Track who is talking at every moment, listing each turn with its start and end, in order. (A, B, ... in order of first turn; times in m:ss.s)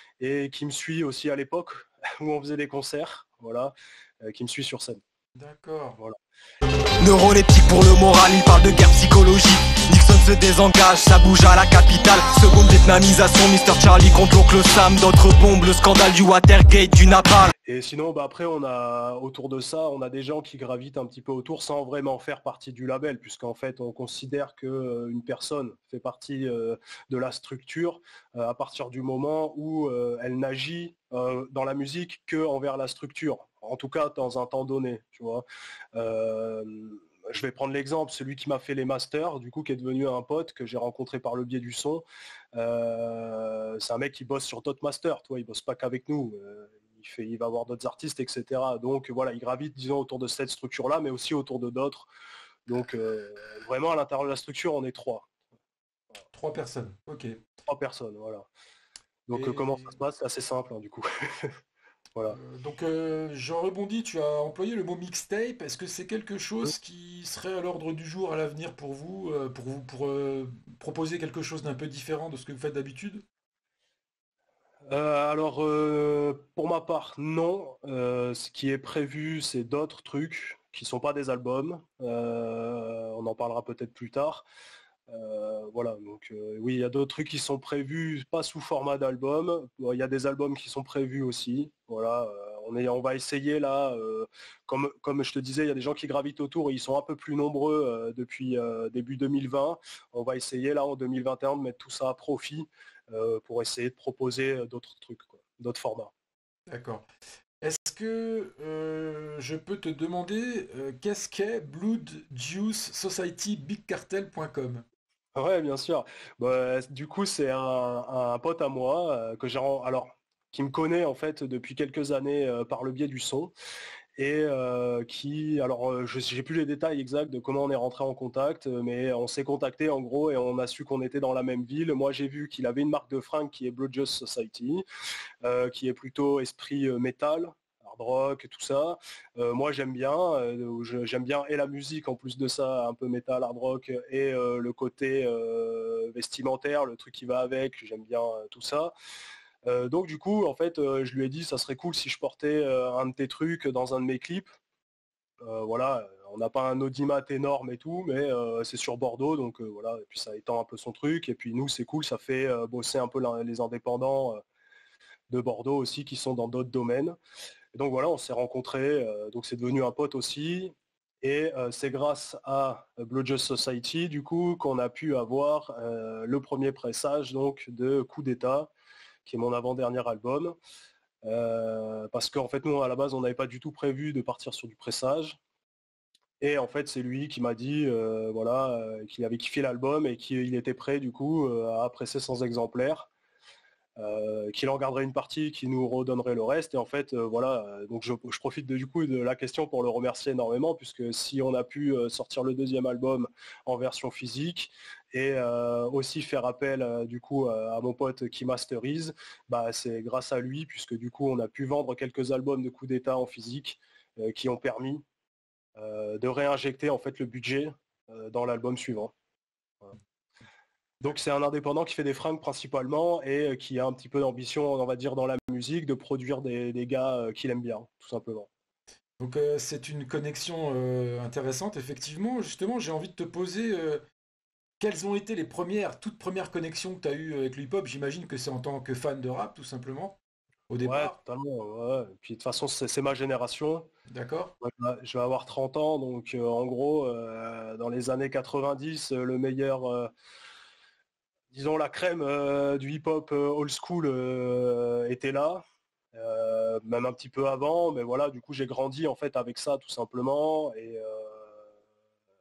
0:00.2-0:05.0 A
0:05.3-0:06.0 B
0:07.0-0:17.5 C
0:17.7-0:52.1 A
0:52.7-0:55.3 A
0:56.3-0:57.4 B
0:57.7-0:58.5 A
0:59.3-1:01.6 A
0:59.3-0:59.9 B
1:02.3-1:13.2 B
1:14.9-1:24.4 A
1:25.1-1:46.1 A
1:46.7-1:47.0 B
1:47.6-1:54.8 B
1:55.3-2:03.5 A
2:04.2-2:14.8 A
2:15.4-2:28.9 A
2:29.6-2:34.5 A
2:35.4-2:44.4 A
2:45.3-2:47.2 A
2:47.7-2:58.7 A
2:59.2-3:00.5 A
3:01.2-3:05.4 A
3:06.4-3:13.1 A
3:14.0-3:35.0 A
3:35.8-3:39.1 A
3:41.0-3:48.5 A
3:49.2-3:54.0 B
3:54.8-4:00.2 B
4:00.7-4:01.2 B
4:00.8-4:03.9 A
4:04.1-4:04.5 B
4:04.6-4:10.1 A
4:11.5-4:21.6 A